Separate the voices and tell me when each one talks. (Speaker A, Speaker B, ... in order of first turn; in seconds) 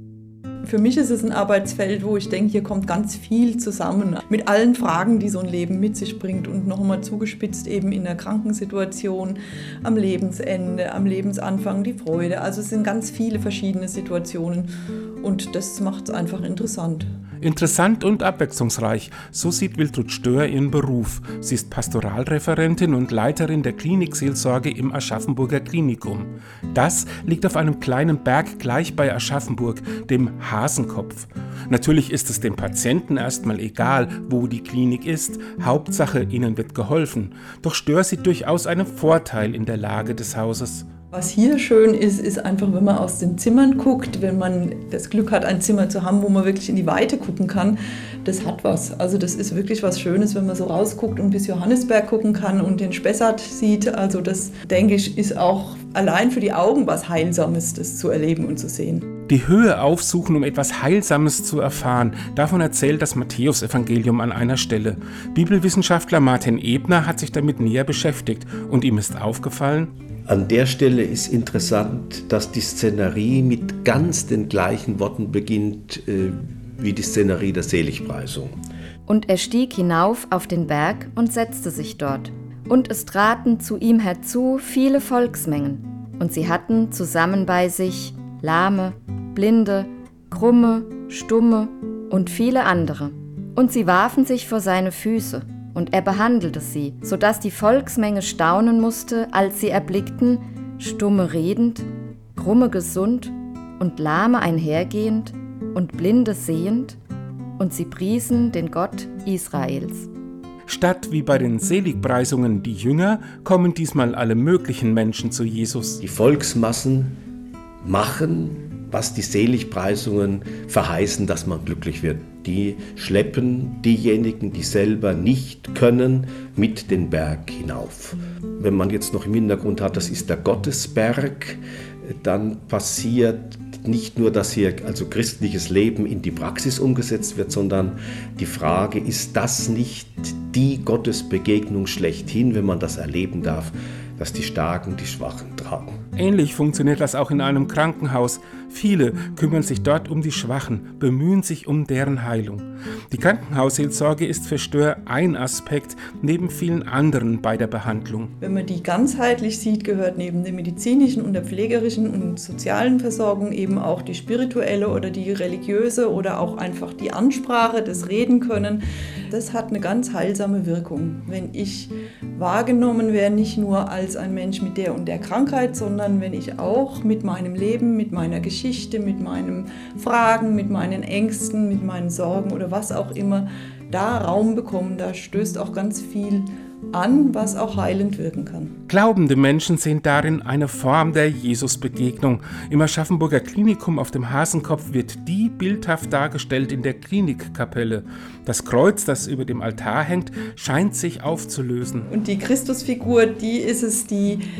Speaker A: 0.6-14.7, 15.2-17.1, 41.1-59.1, 158.4-188.7, 202.1-204.4
Speaker B: 17.4-40.9, 59.3-69.9, 110.7-116.0, 146.2-158.3, 188.9-202.1
Speaker C: 70.3-78.5, 116.0-117.2, 117.8-146.0
Speaker D: 79.1-107.0, 107.6-110.1